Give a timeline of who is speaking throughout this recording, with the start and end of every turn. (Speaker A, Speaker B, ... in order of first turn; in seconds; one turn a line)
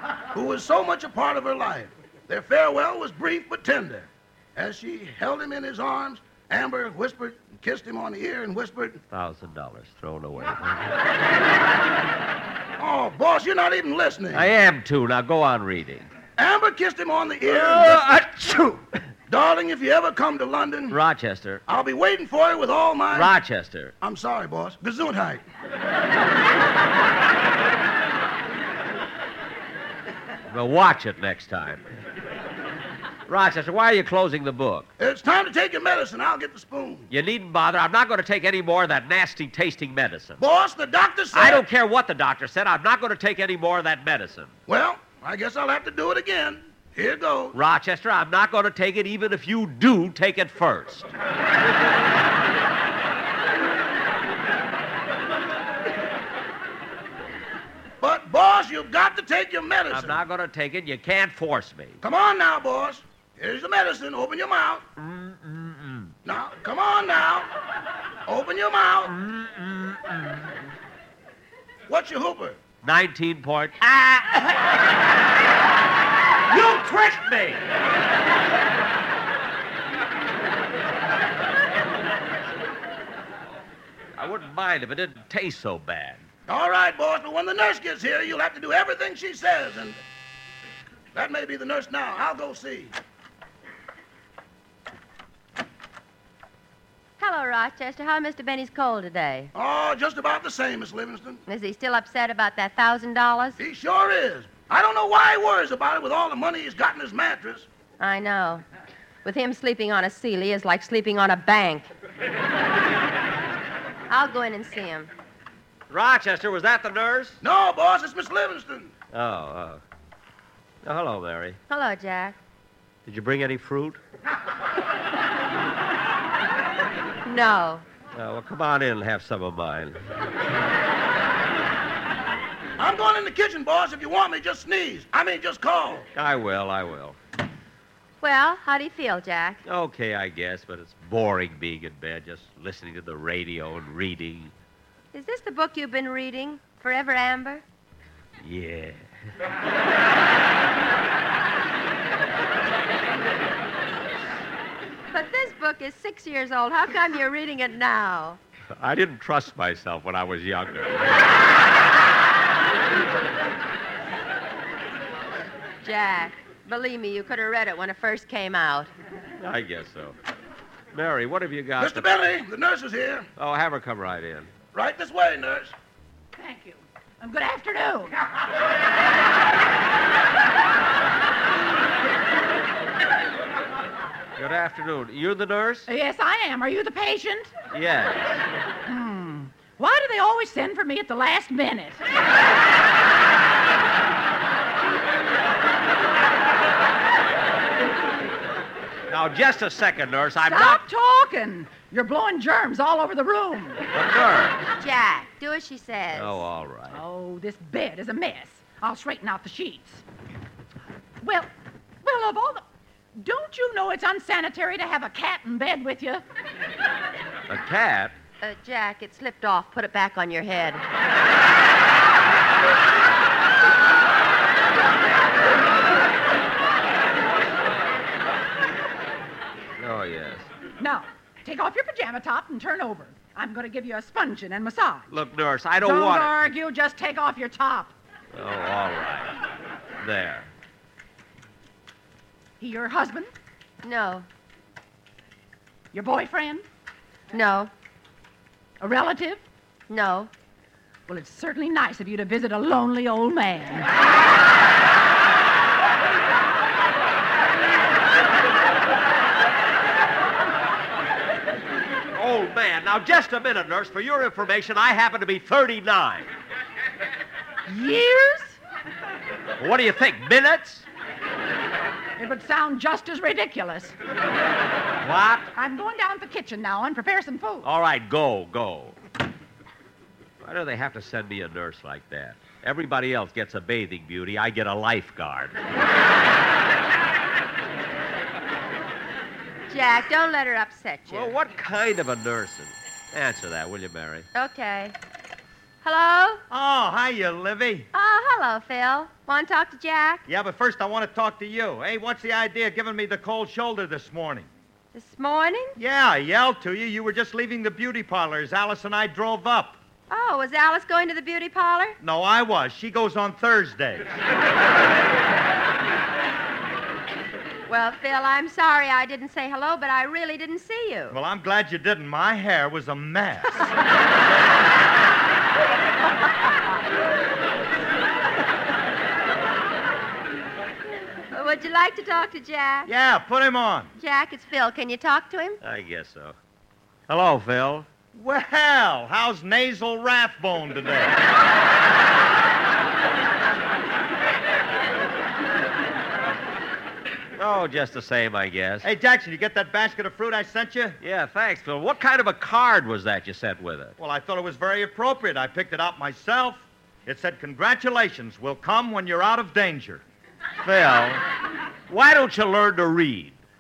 Speaker A: 0.3-9.0
Speaker B: 9.1-11.0
Speaker A: 12.8-14.5
Speaker B: 14.3-16.1
Speaker A: 16.4-18.1
Speaker B: 17.4-18.8
Speaker A: 19.3-21.0
Speaker B: 20.9-21.6
Speaker A: 21.7-23.3
Speaker B: 23.1-23.9
Speaker A: 24.0-25.4
Speaker B: 30.5-31.8
Speaker B: 33.3-34.9
Speaker A: 35.0-37.1
Speaker B: 37.1-40.4
Speaker A: 40.4-41.6
Speaker B: 41.3-44.5
Speaker A: 44.7-47.5
Speaker B: 47.5-51.1
Speaker A: 58.0-60.2
Speaker B: 59.9-62.0
Speaker A: 62.0-64.8
Speaker B: 65.0-66.1
Speaker A: 66.2-67.5
Speaker A: 68.3-69.1
Speaker B: 69.1-70.4
Speaker A: 71.9-72.6
Speaker B: 72.8-74.7
Speaker B: 76.5-77.6
Speaker B: 84.2-86.2
Speaker A: 86.5-90.0
Speaker A: 91.1-92.9
Speaker C: 97.2-99.5
Speaker A: 99.5-101.4
Speaker C: 101.5-103.6
Speaker A: 103.6-107.7
Speaker C: 108.0-108.6
Speaker C: 109.2-111.9
Speaker C: 114.1-115.1
Speaker B: 115.9-117.4
Speaker A: 117.4-118.9
Speaker B: 119.1-119.8
Speaker B: 120.8-121.6
Speaker C: 121.7-122.4
Speaker B: 123.1-124.0
Speaker C: 127.2-127.8
Speaker B: 128.1-130.0
Speaker A: 132.8-136.1
Speaker B: 136.2-137.2
Speaker C: 138.2-139.6
Speaker B: 139.7-144.5
Speaker C: 145.1-147.6
Speaker B: 148.4-149.1
Speaker C: 155.1-158.4
Speaker B: 158.8-161.2
Speaker C: 165.8-168.9
Speaker B: 169.4-170.2
Speaker B: 170.9-172.1
Speaker A: 171.8-173.3
Speaker B: 173.4-174.5
Speaker A: 174.7-175.7
Speaker D: 176.4-178.2
Speaker B: 184.4-185.9
Speaker D: 185.9-187.5
Speaker B: 187.7-188.4
Speaker D: 188.9-192.0
Speaker B: 199.1-200.8
Speaker D: 200.4-203.8
Speaker B: 203.9-204.6
Speaker C: 204.8-206.4
Speaker B: 206.1-207.0
Speaker D: 206.9-210.0
Speaker D: 211.2-211.5
Speaker D: 212.0-212.6
Speaker D: 213.2-216.2
Speaker B: 217.5-218.2
Speaker C: 218.4-220.8
Speaker B: 229.8-230.5
Speaker D: 230.8-235.1
Speaker B: 235.1-236.4
Speaker D: 235.8-237.9
Speaker B: 238.3-239.3
Speaker B: 240.0-240.5
Speaker D: 242.6-243.3
Speaker C: 243.8-244.3
Speaker D: 245.9-246.6
Speaker C: 247.3-247.7
Speaker D: 248.8-249.4
Speaker C: 249.9-250.3
Speaker D: 251.1-253.9
Speaker B: 262.1-266.3
Speaker D: 267.7-268.6
Speaker B: 269.6-270.9
Speaker D: 272.2-273.9
Speaker B: 275.0-275.5
Speaker D: 275.6-277.7
Speaker B: 277.6-279.0
Speaker B: 280.4-285.6
Speaker C: 289.7-291.4
Speaker B: 291.1-294.3
Speaker C: 294.4-294.9
Speaker C: 295.8-296.4
Speaker E: 296.5-297.9
Speaker C: 297.9-300.2
Speaker E: 300.3-304.5
Speaker C: 304.9-305.8
Speaker E: 305.8-309.8
Speaker C: 310.1-312.0
Speaker E: 312.0-314.1
Speaker C: 317.7-321.2
Speaker E: 321.1-323.7
Speaker C: 331.3-332.9
Speaker E: 332.9-333.9
Speaker C: 334.0-335.6
Speaker B: 335.6-336.4
Speaker B: 337.1-337.9
Speaker E: 338.1-341.2
Speaker B: 347.4-348.9
Speaker E: 348.8-351.0
Speaker B: 351.0-354.0
Speaker E: 354.0-360.0
Speaker B: 360.6-361.2
Speaker B: 361.9-363.4